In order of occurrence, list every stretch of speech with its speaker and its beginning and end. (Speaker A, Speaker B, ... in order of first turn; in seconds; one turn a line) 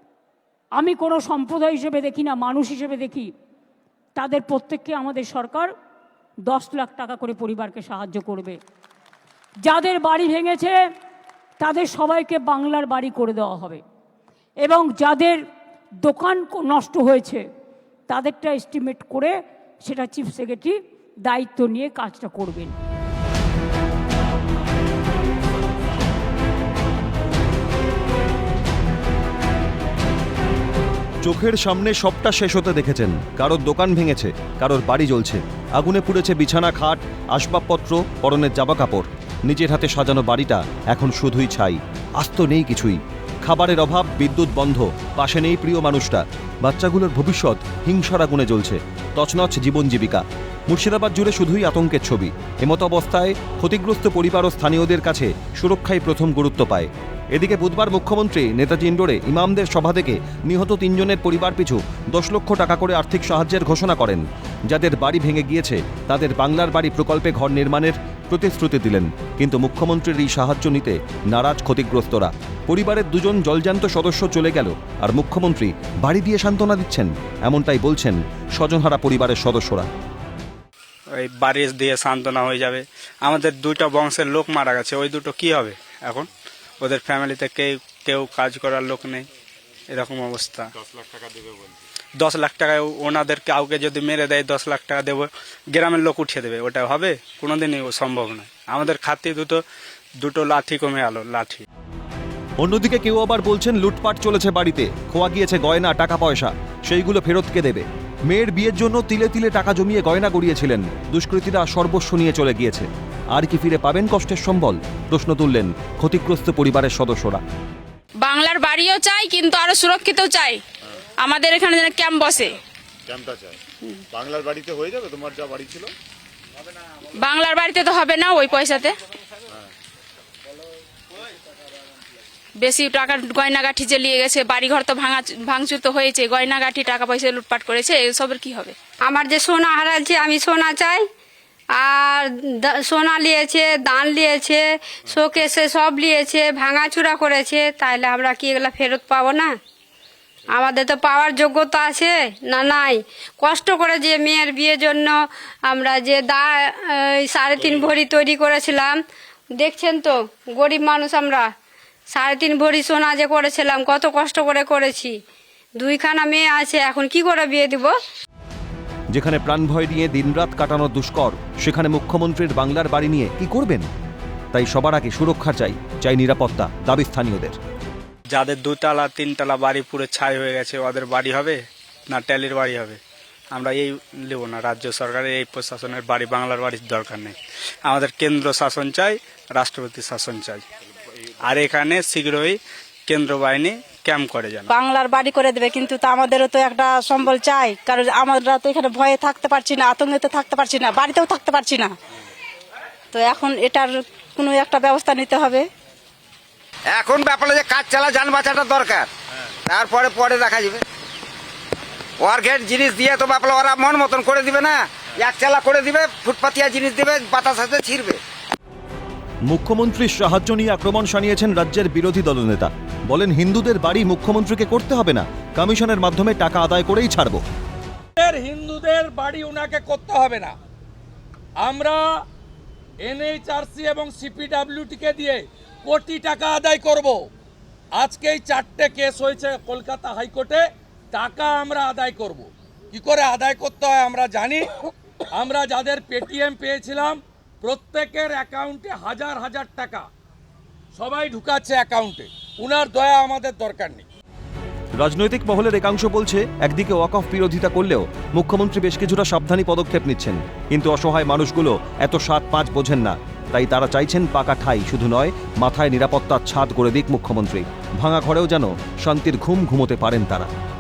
Speaker A: 0.7-3.3
Speaker A: 4.2-5.7
Speaker A: 6.5-8.6
Speaker A: 9.6-10.8
Speaker A: 11.6-13.8
Speaker A: 14.6-15.4
Speaker A: 16.0-17.4
Speaker A: 18.1-22.8
Speaker B: 31.2-79.9
Speaker C: 81.1-86.3
Speaker C: 86.8-89.3
Speaker C: 89.9-90.7
Speaker D: 90.8-91.8
Speaker C: 92.2-99.6
Speaker C: 100.2-101.6
Speaker B: 102.6-117.4
Speaker E: 118.2-120.6
Speaker E: 121.2-122.6
Speaker D: 123.1-123.6
Speaker D: 124.1-125.9
Speaker E: 127.2-129.0
Speaker E: 132.6-138.8
Speaker F: 139.1-141.0
Speaker F: 141.8-149.5
Speaker F: 150.6-155.2
Speaker F: 155.7-159.0
Speaker F: 159.6-161.4
Speaker F: 162.1-165.2
Speaker F: 165.8-167.9
Speaker B: 169.1-173.8
Speaker B: 174.5-177.6
Speaker C: 178.3-183.0
Speaker C: 183.5-187.3
Speaker C: 187.8-190.6
Speaker C: 191.4-194.7
Speaker G: 194.7-201.9
Speaker G: 203.1-205.7
Speaker H: 206.9-209.1
Speaker H: 209.7-210.8
Speaker H: 212.2-218.2
Speaker B: 219.5-227.4
Speaker I: 228.2-230.5
Speaker I: 231.6-232.0
Speaker I: 233.0-237.2
Speaker I: 238.0-244.7
Speaker I: 245.3-250.1
Speaker I: 251.0-254.0
Speaker B: 255.0-270.5